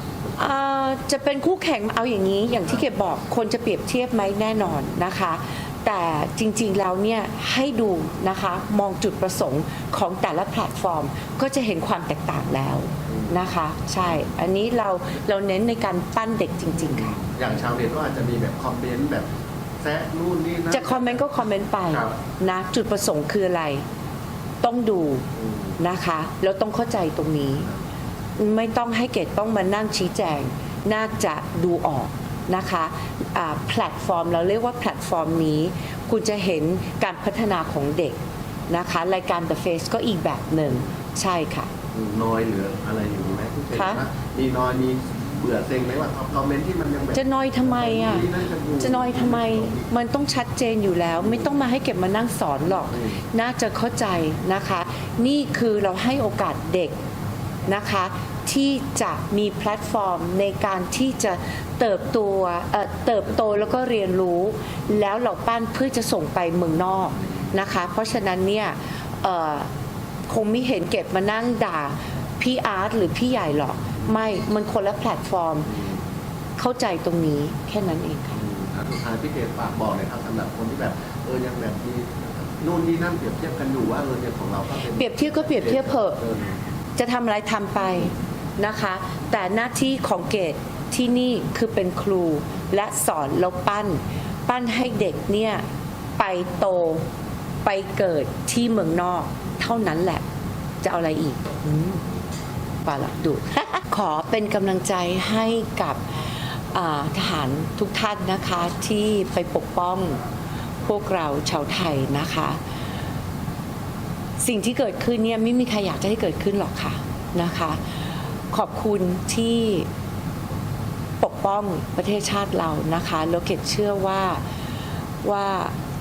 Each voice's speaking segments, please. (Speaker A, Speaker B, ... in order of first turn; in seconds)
Speaker A: 0.4-17.2, 20.7-23.8, 24.6-25.2, 25.8-27.7, 28.4-38.2, 38.7-41.7, 43.7-44.0, 47.1-57.0, 57.7-69.7, 70.3-75.7, 76.6-78.4, 84.9-86.2, 87.0-95.6, 96.2-97.0, 97.6-100.2, 100.8-102.0, 102.8-110.2, 110.8-112.6, 114.4-117.9, 118.5-119.9, 121.2-124.4, 125.2-125.7
Speaker B: 17.3-19.3, 19.8-21.3, 41.9-49.8, 75.7-76.0, 78.3-86.6